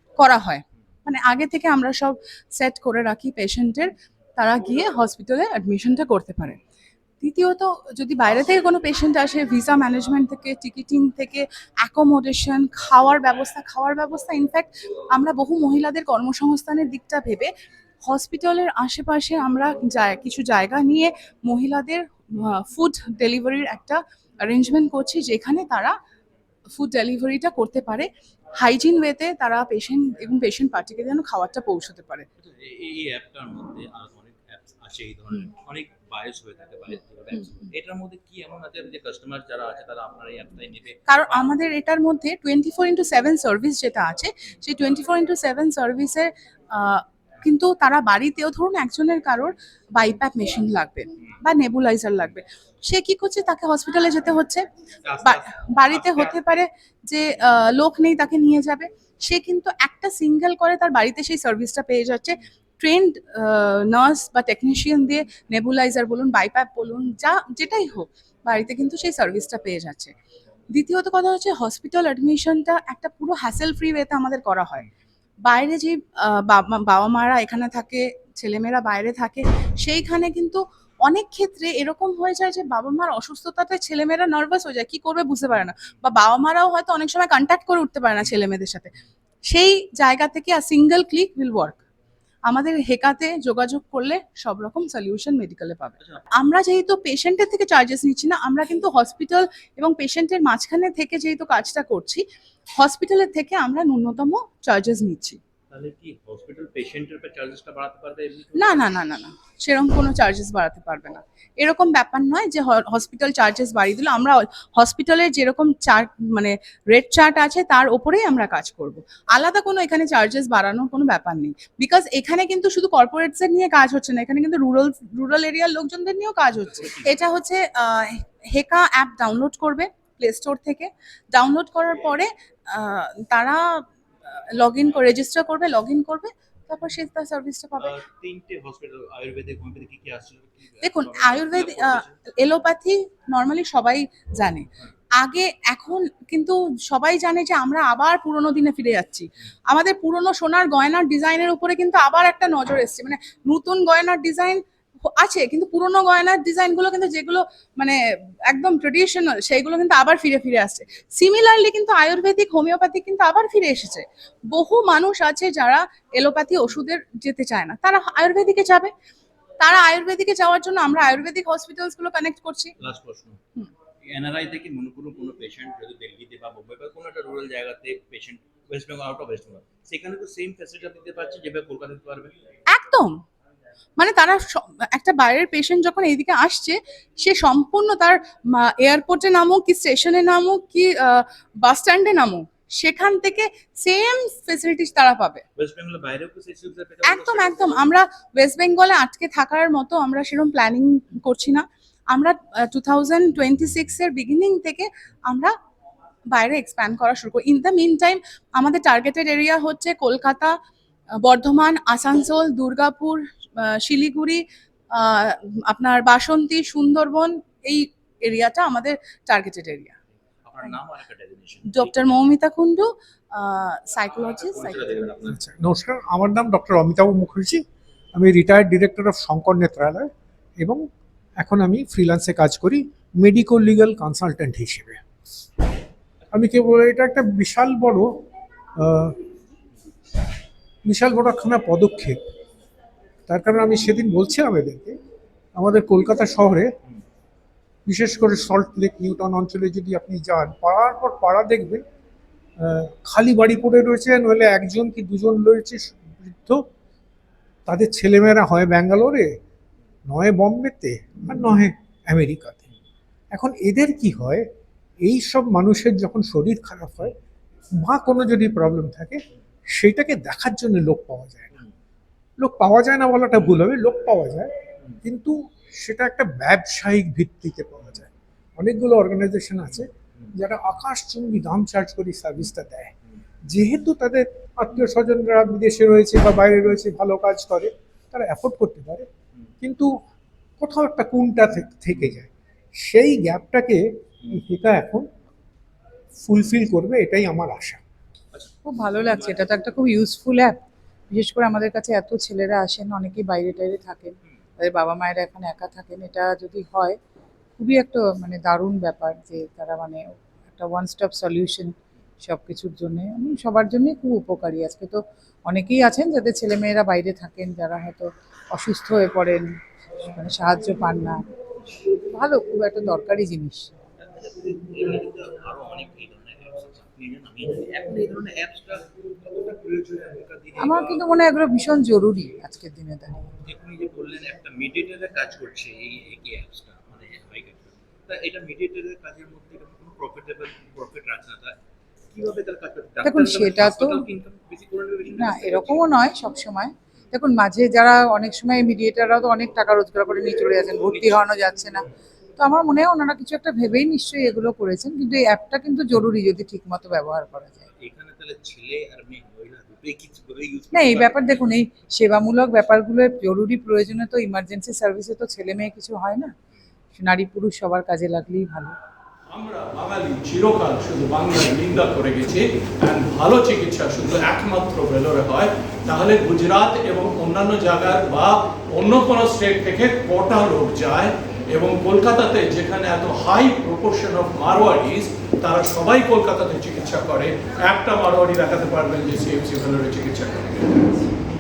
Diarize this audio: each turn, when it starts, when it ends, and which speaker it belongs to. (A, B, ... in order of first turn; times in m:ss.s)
0:00.2-0:06.6 A
0:07.2-0:17.5 A
0:18.0-0:25.9 A
0:26.8-0:28.1 A
0:28.6-0:32.3 A
0:32.4-0:41.5 B
0:41.1-0:54.6 A
0:55.0-0:56.4 B
0:55.2-1:10.1 A
1:10.7-1:14.8 A
1:15.4-1:29.0 A
1:29.5-1:31.8 A
1:32.5-1:42.2 A
1:36.0-1:36.2 B
1:42.8-1:45.4 A
1:45.7-1:49.0 B
1:48.5-2:13.8 A
2:06.7-2:07.2 B
2:14.6-2:17.9 A
2:17.8-2:22.1 B
2:20.8-2:24.7 A
2:25.2-2:38.0 A
2:38.5-2:48.9 A
2:49.6-2:52.7 A
2:52.8-2:53.4 B
2:54.1-3:02.4 B
3:02.7-3:03.1 A
3:04.0-3:15.4 A
3:15.6-3:17.9 B
3:17.0-3:25.5 A
3:26.3-3:30.5 A
3:31.2-3:34.4 A
3:34.9-3:39.9 A
3:40.4-3:42.0 B
3:41.6-3:45.1 A
3:44.2-3:45.5 B
3:45.4-3:47.6 C
3:48.2-3:50.1 C
3:50.6-3:50.8 C
3:51.4-3:55.0 C
3:56.3-3:58.1 C
3:58.8-3:59.2 C
4:00.9-4:02.2 C
4:03.3-4:05.0 C
4:05.6-4:06.7 C
4:07.9-4:11.8 C
4:12.6-4:16.6 C
4:17.7-4:19.3 C
4:20.1-4:22.6 C
4:23.3-4:24.4 C
4:25.0-4:27.1 C
4:27.8-4:29.2 C
4:29.8-4:31.6 C
4:32.4-4:34.5 C
4:33.4-4:33.7 B
4:35.0-4:38.0 C
4:38.6-4:39.8 C
4:39.6-4:40.4 B
4:40.4-4:42.9 C
4:43.5-4:49.1 C
4:49.6-4:49.9 C
4:50.6-4:52.3 C
4:52.8-4:55.1 C
4:56.2-4:57.8 C
4:58.3-4:59.5 B
4:58.7-5:00.6 D
5:01.1-5:07.0 D
5:07.6-5:21.2 D
5:22.1-5:23.7 D
5:24.0-5:31.2 B
5:30.6-5:33.1 D
5:33.5-5:41.6 B
5:42.1-5:46.0 B
5:43.0-5:44.0 D
5:45.2-5:51.8 D
5:50.8-5:51.3 B
5:52.4-5:57.6 D
5:57.8-6:01.6 B
6:00.7-6:06.3 D
6:07.0-6:08.7 D
6:09.3-6:31.1 E